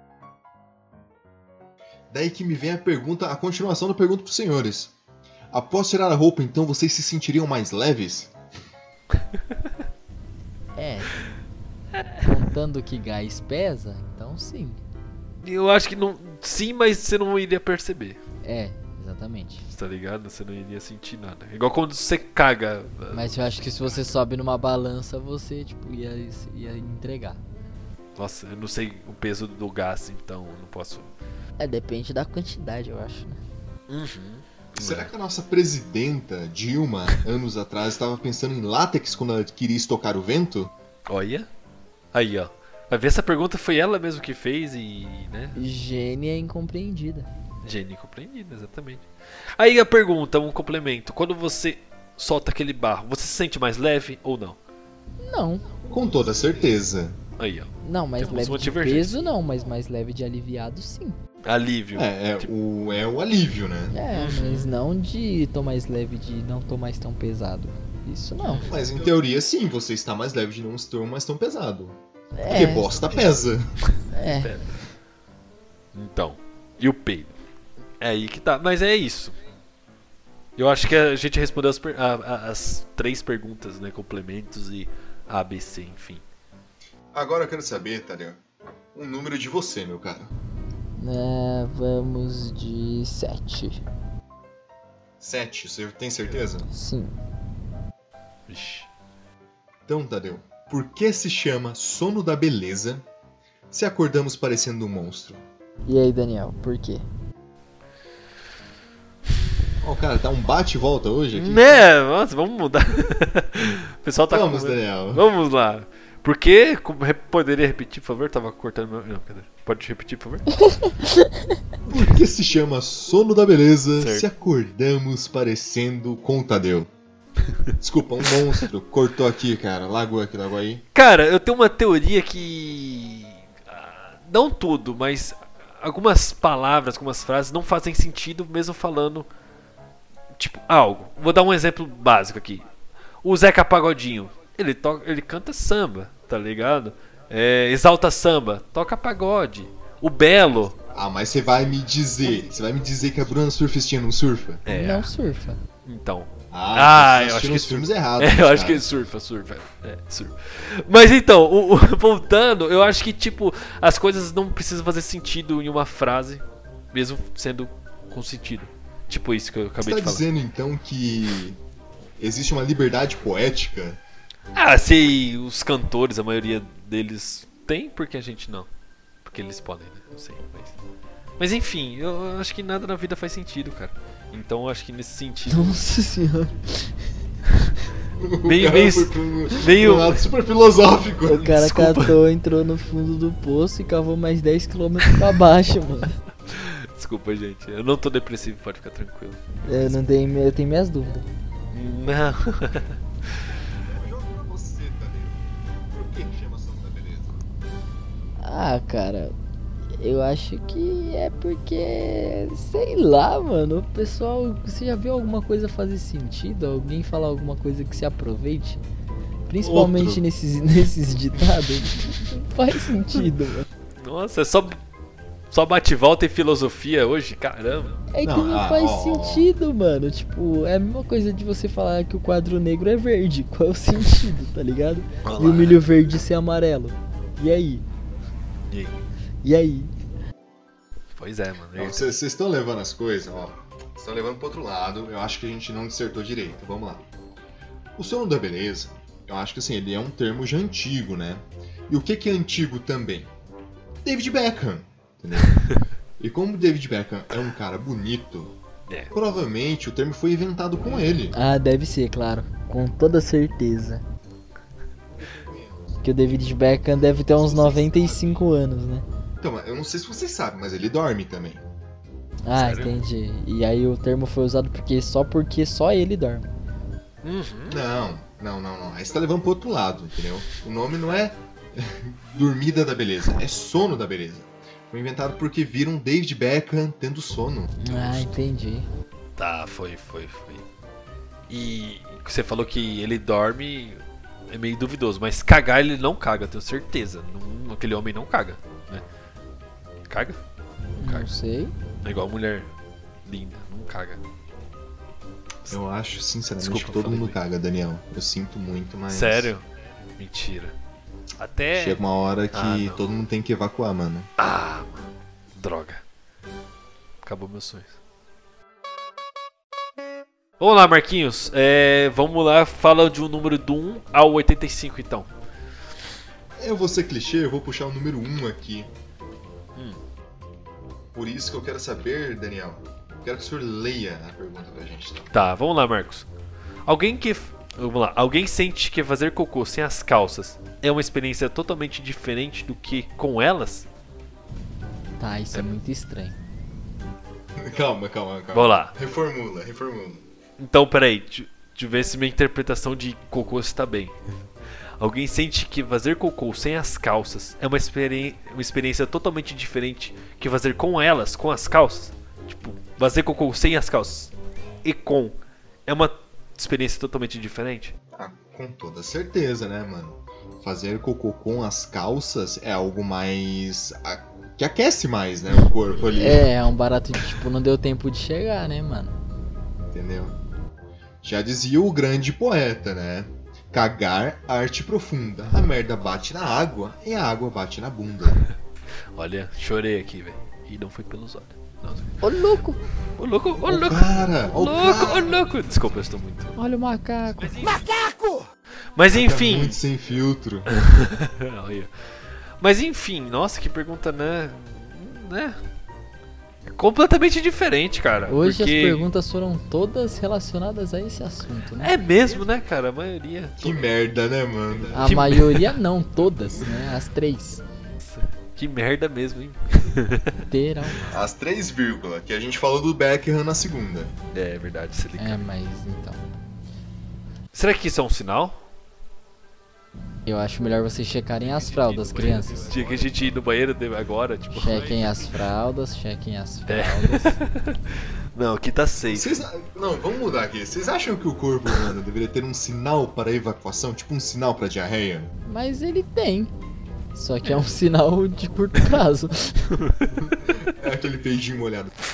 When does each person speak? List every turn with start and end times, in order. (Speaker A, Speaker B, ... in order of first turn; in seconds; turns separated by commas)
Speaker A: 2.1-4.9, Speaker A: 5.5-8.3, Speaker B: 10.8-11.2, Speaker B: 12.2-14.8, Speaker C: 15.4-18.2, Speaker B: 18.4-19.6, Speaker C: 19.7-23.2, Speaker B: 23.1-27.4, Speaker C: 28.1-31.1, Speaker B: 31.6-33.4, Speaker C: 33.9-35.1, Speaker A: 34.7-40.7, Speaker C: 41.1-41.5, Speaker C: 42.1-45.6, Speaker B: 45.5-47.3, Speaker C: 47.6-54.6, Speaker B: 55.2-55.7, Speaker A: 55.9-57.2, Speaker C: 57.4-59.3, Speaker B: 57.8-61.2, Speaker C: 61.4-62.5, Speaker A: 61.9-64.0, Speaker B: 63.9-68.7, Speaker C: 64.1-64.7, Speaker A: 68.6-71.9, Speaker B: 72.3-73.1, Speaker A: 72.5-73.7, Speaker B: 74.1-74.5, Speaker C: 74.4-74.6, Speaker C: 75.9-77.3, Speaker C: 78.0-79.4, Speaker C: 80.6-86.2, Speaker A: 87.1-88.4, Speaker A: 88.9-90.3, Speaker B: 91.0-93.8, Speaker A: 95.2-96.7, Speaker B: 96.7-97.1, Speaker C: 98.5-98.9, Speaker A: 99.9-103.0, Speaker A: 103.7-105.4, Speaker B: 105.8-107.0, Speaker A: 109.8-111.8, Speaker C: 111.3-120.6, Speaker A: 114.3-115.2, Speaker B: 120.7-121.3, Speaker A: 121.8-126.9, Speaker C: 124.0-124.3, Speaker C: 127.5-127.7, Speaker A: 127.8-130.8, Speaker C: 130.9-139.3, Speaker C: 140.4-142.6, Speaker C: 143.2-150.8, Speaker A: 150.9-154.7, Speaker C: 154.7-155.1, Speaker B: 154.7-155.6, Speaker C: 155.8-170.2, Speaker A: 156.5-158.8, Speaker A: 169.8-171.6, Speaker A: 172.2-174.0, Speaker C: 174.5-178.7, Speaker C: 179.2-180.7, Speaker C: 181.4-185.8, Speaker B: 185.5-187.0, Speaker A: 188.2-191.6, Speaker C: 188.4-190.3, Speaker B: 191.2-196.2, Speaker C: 191.5-192.2, Speaker C: 196.5-199.9, Speaker B: 199.6-201.3, Speaker C: 201.7-202.9, Speaker A: 203.8-207.4, Speaker B: 208.4-209.3, Speaker B: 209.9-218.8, Speaker B: 219.5-223.7, Speaker A: 219.6-220.2, Speaker C: 224.0-224.8, Speaker C: 225.5-228.0, Speaker B: 228.1-237.8, Speaker A: 228.2-229.5, Speaker C: 235.2-235.8, Speaker C: 238.7-239.0, Speaker B: 239.4-239.9, Speaker C: 241.2-242.1, Speaker A: 241.8-247.0, Speaker A: 247.9-253.3, Speaker A: 254.0-255.6, Speaker A: 256.2-258.5, Speaker A: 259.1-261.3, Speaker B: 261.3-264.0, Speaker A: 265.2-266.0, Speaker B: 266.0-269.0, Speaker A: 266.9-268.4, Speaker A: 269.4-271.6, Speaker B: 272.4-276.5, Speaker C: 272.5-272.9, Speaker C: 277.2-277.8, Speaker A: 277.7-288.1, Speaker B: 287.8-288.9, Speaker C: 289.4-290.6, Speaker C: 291.5-299.0, Speaker C: 300.1-300.4, Speaker B: 301.0-301.7, Speaker C: 301.0-301.3, Speaker C: 302.0-302.7, Speaker C: 303.2-304.2, Speaker A: 305.7-309.5, Speaker C: 306.6-307.4, Speaker C: 309.1-309.6, Speaker C: 310.2-310.7, Speaker C: 311.4-312.0, Speaker A: 311.7-314.3, Speaker C: 312.5-313.0, Speaker C: 314.4-316.0, Speaker C: 317.2-317.9, Speaker C: 320.6-325.3, Speaker A: 326.6-328.9, Speaker A: 331.1-335.3, Speaker C: 335.3-336.3, Speaker C: 336.9-343.9, Speaker B: 345.2-346.4, Speaker A: 347.6-350.2, Speaker C: 348.5-348.9, Speaker C: 350.6-354.1, Speaker C: 355.0-364.3, Speaker C: 364.8-367.9, Speaker A: 368.1-376.5, Speaker B: 376.1-379.1, Speaker A: 379.9-380.4, Speaker A: 381.2-388.4, Speaker C: 389.1-392.2, Speaker B: 392.2-392.8, Speaker C: 393.2-396.5, Speaker A: 393.6-395.4, Speaker B: 396.6-397.7, Speaker C: 397.4-398.3, Speaker C: 398.9-399.8, Speaker A: 399.1-400.8, Speaker C: 400.7-401.9, Speaker C: 402.6-405.6, Speaker C: 406.6-409.1, Speaker B: 408.3-411.9, Speaker C: 411.8-413.9, Speaker A: 413.6-415.4, Speaker C: 414.9-415.7, Speaker B: 414.9-417.6, Speaker C: 418.0-420.4, Speaker B: 420.5-421.1, Speaker A: 421.1-424.1, Speaker C: 424.3-425.4, Speaker B: 425.2-426.3, Speaker C: 427.5-428.6, Speaker B: 430.2-432.7, Speaker C: 431.7-435.2, Speaker B: 434.5-437.4, Speaker C: 436.7-439.4, Speaker A: 439.1-445.3, Speaker B: 445.5-446.5, Speaker B: 447.1-449.8, Speaker C: 449.8-450.1, Speaker A: 450.3-451.9